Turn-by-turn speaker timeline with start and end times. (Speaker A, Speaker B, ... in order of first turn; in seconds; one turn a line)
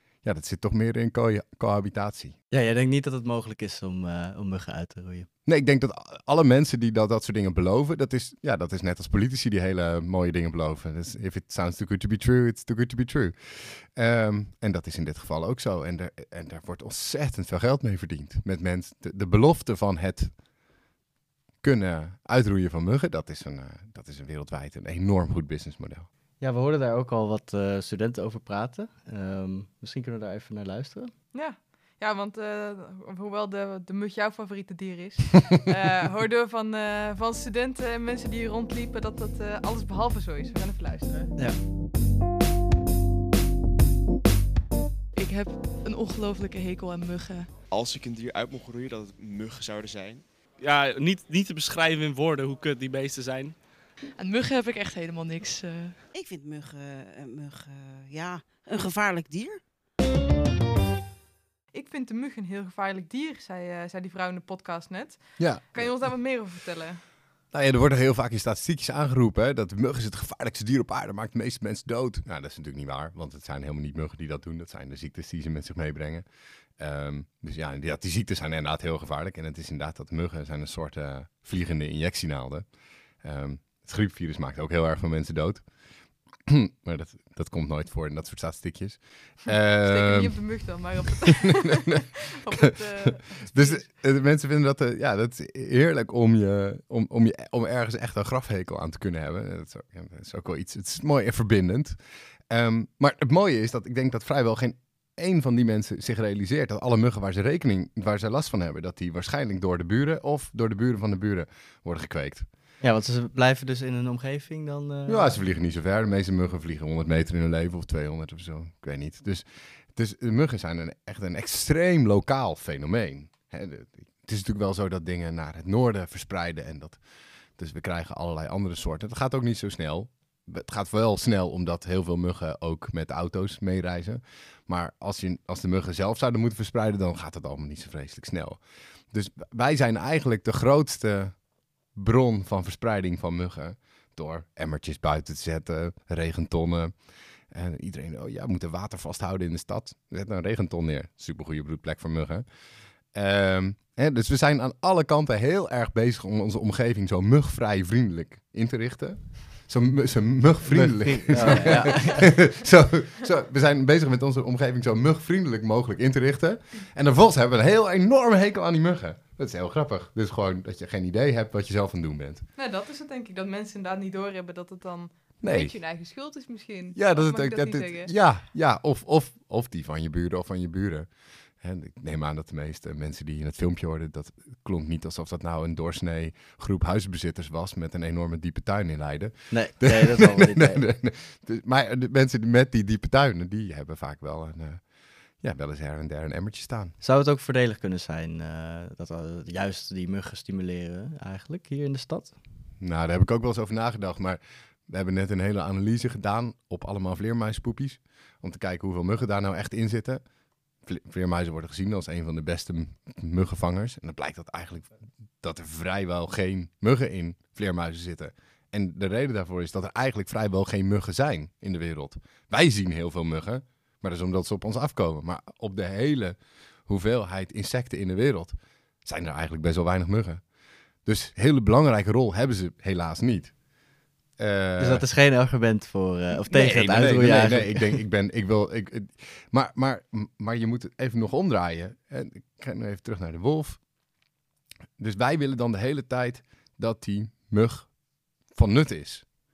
Speaker A: 0.2-2.4
Speaker B: 2.5-5.3
Speaker A: 5.5-20.4
Speaker A: 21.6-26.1
Speaker B: 26.4-31.1
Speaker C: 31.3-41.3
Speaker D: 45.1-47.5
Speaker E: 47.7-50.4
Speaker F: 50.5-53.9
Speaker D: 54.1-56.0
Speaker G: 56.1-59.6
Speaker C: 61.7-67.0
Speaker A: 65.4-66.2
Speaker A: 67.5-76.2
Speaker A: 76.8-85.7
Speaker A: 86.4-90.8
Speaker C: 89.8-93.9
Speaker A: 93.5-112.5
Speaker B: 112.8-115.4
Speaker A: 115.1-127.0
Speaker A: 127.5-138.6
Speaker A: 139.1-141.4
Speaker A: 141.9-146.9
Speaker A: 147.5-152.4
Speaker A: 153.1-172.5
Speaker B: 160.7-162.4
Speaker C: 172.6-178.1
Speaker A: 175.4-175.8
Speaker A: 176.9-196.9
Speaker B: 189.5-190.8
Speaker B: 197.0-202.4
Speaker A: 202.8-210.2
Speaker A: 210.8-230.5
Speaker A: 231.0-233.6
Speaker A: 234.4-235.1
Speaker B: 234.8-238.0
Speaker A: 236.5-243.8
Speaker A: 245.0-249.3